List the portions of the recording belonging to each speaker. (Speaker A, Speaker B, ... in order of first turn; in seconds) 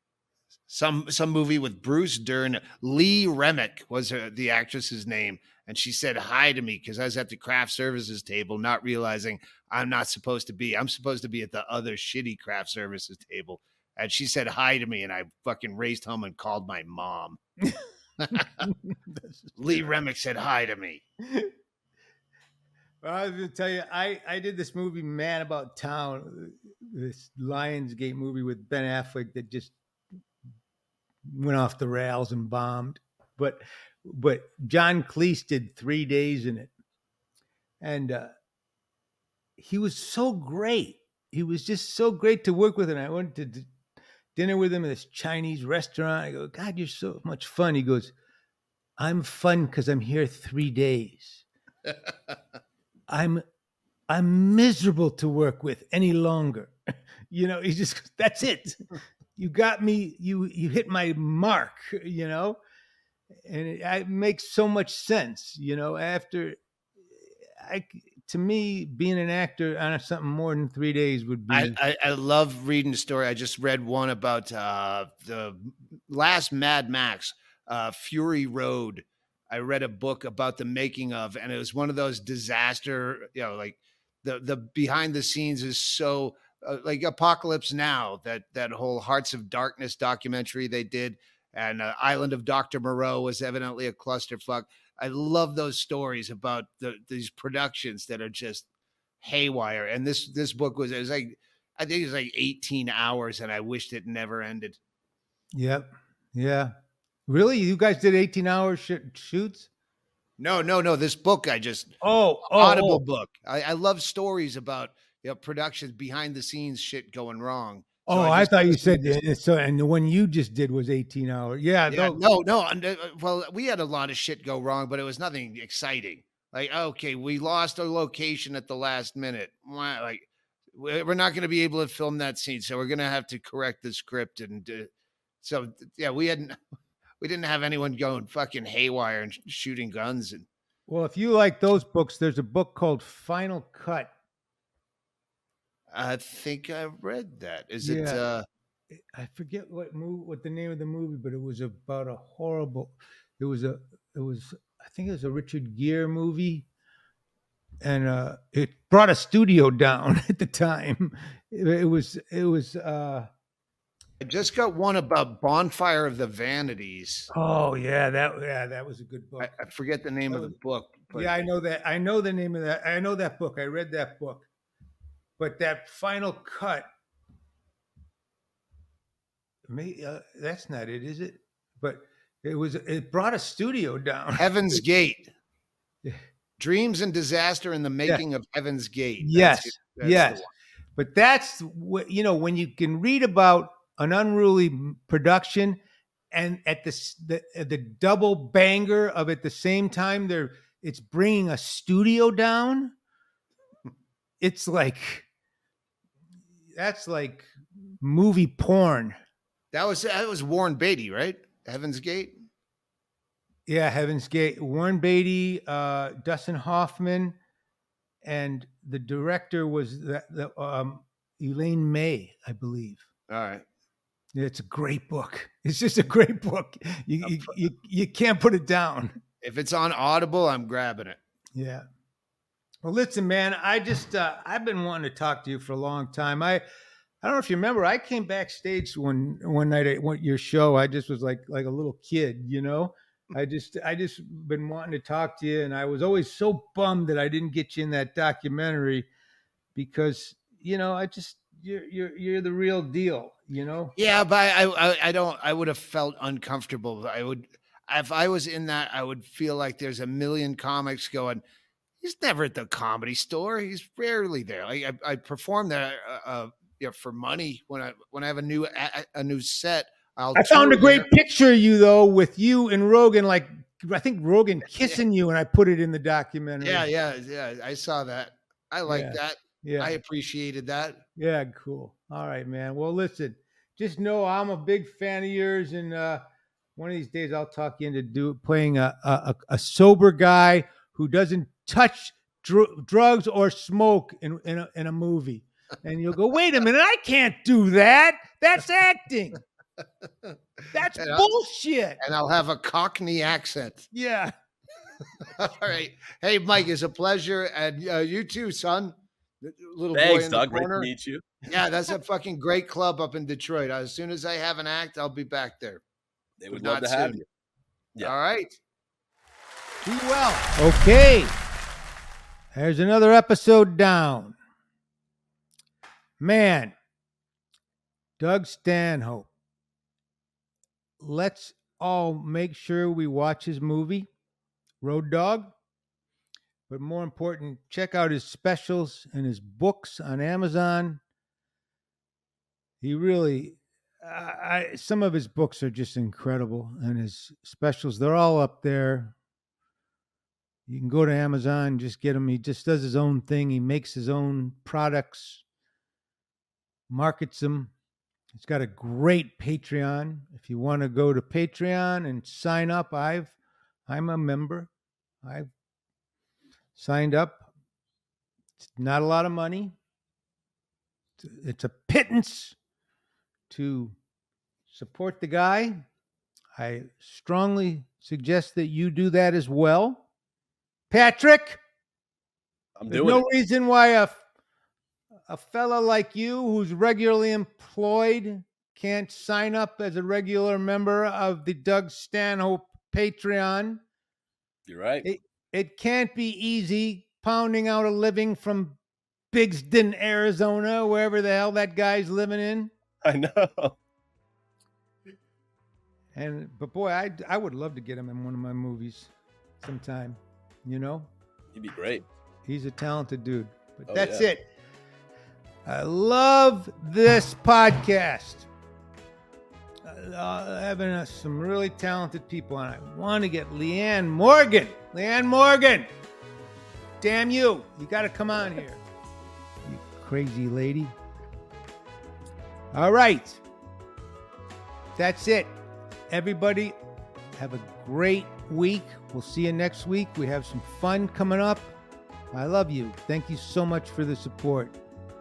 Speaker A: 0.7-17.4, 18.2-18.7, 19.6-21.0, 71.5-98.7, 99.2-104.8, 110.4-111.9, 112.5-119.2, 121.9-134.9, 135.4-136.6, 137.2-140.5, 145.9-148.4, 164.2-167.3, 169.4-171.5, 184.4-185.3, 186.6-190.5, 209.7-212.3, 223.3-223.7, 227.2-227.5, 229.4-231.2, 254.0-261.4, 262.0-271.1, 276.6-281.0, 301.0-301.2, 302.0-303.9, 305.2-310.9, 311.5-315.8, 316.5-317.2, 318.0-318.6
Speaker B: 18.3-19.5, 21.3-21.5, 23.0-29.7, 31.3-36.7, 37.8-38.3, 39.6-43.7, 44.4-48.1, 49.0-51.4, 53.1-53.4, 54.1-56.7, 57.3-58.8, 59.4-62.6, 63.5-66.6, 67.6-71.8, 105.5-106.7, 107.3-109.7, 112.0-113.0, 118.1-122.2, 140.9-144.1, 147.8-148.2, 148.9-156.7, 157.8-163.3, 167.3-169.5, 170.3-170.6, 171.1-174.5, 175.4-176.9, 179.7-184.8, 189.2-190.4, 191.0-195.8, 196.3-202.9, 204.4-205.3, 206.8-207.5, 208.0-209.2, 213.7-217.4, 218.2-223.1, 224.3-229.2, 231.6-231.8, 232.8-236.6, 237.2-249.1, 249.8-253.9, 270.4-276.9, 278.9-279.9, 281.2-286.2, 286.8-299.4, 300.7-302.0, 303.9-304.3, 319.9-321.3, 322.5-324.4, 326.2-326.7, 328.2-329.3, 331.0-334.1, 334.8-335.5, 336.7-341.0, 342.8-349.2, 350.7-355.4, 356.9-357.7, 358.3-363.4, 363.9-364.7, 365.2-365.5, 366.8-367.5, 368.6-369.7, 371.2-372.6, 373.5-374.0, 374.7-375.8, 376.6-380.0, 380.9-381.6, 382.9-384.2, 385.3-393.8, 395.0-398.8, 399.3-402.7, 406.1-411.1, 412.4-414.4, 415.6-418.5, 419.8-425.9, 427.0-428.8, 429.6-430.9, 432.7-433.4, 435.0-435.5, 436.1-436.8, 437.4-441.7, 442.3-444.8
Speaker C: 309.9-311.3, 316.4-317.2, 382.8-383.2, 394.7-395.1, 403.0-403.8, 411.5-412.1, 413.9-414.2